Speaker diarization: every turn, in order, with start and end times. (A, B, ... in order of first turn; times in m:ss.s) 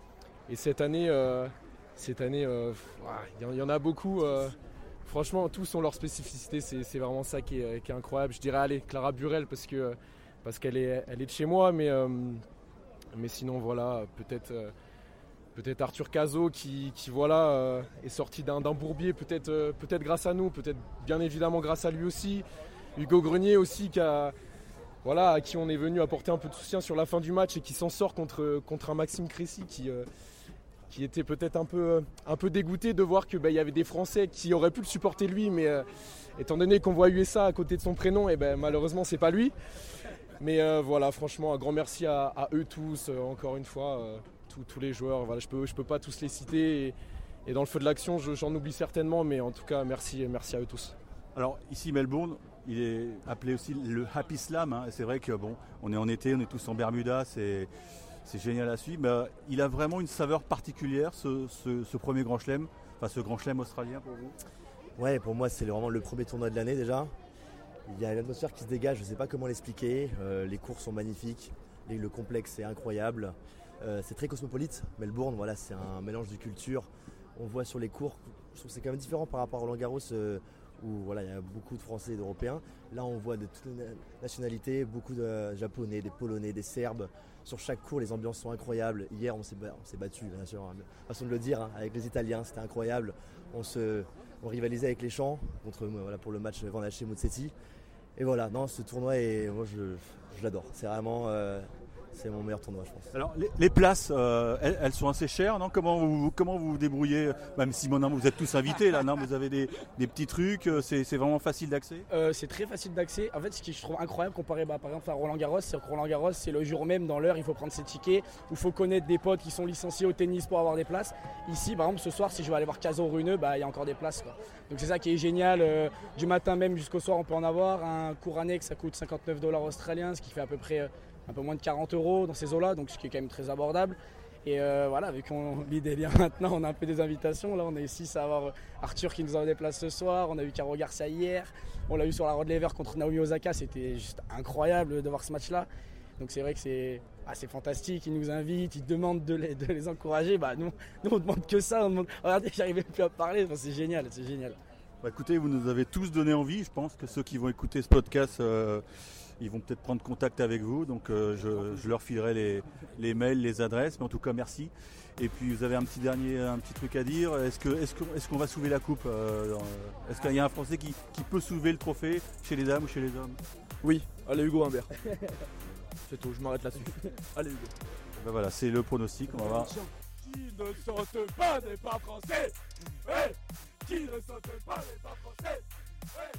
0:00.5-0:12.4 A
0:13.1-0:14.7 A
0:15.5-0:22.4 A
0:23.0-0:24.3 A
0:25.0-0:30.0 A
0:30.9-0:35.8 A
0:36.4-0:39.5 A
0:40.4-0:50.9 A
0:51.3-0:57.7 B
0:58.2-1:04.3 B
1:05.0-1:07.1 C
1:07.9-1:37.5 C
1:38.2-1:43.1 C
1:43.1-1:52.0 B
1:52.1-2:34.6 D
2:35.0-2:38.8 B
2:39.4-2:53.4 B
2:53.8-2:54.9 E
2:56.0-2:57.7 E
2:58.2-2:59.7 B
3:00.3-3:02.5 E
3:03.1-3:03.4 E
3:03.9-3:05.6 E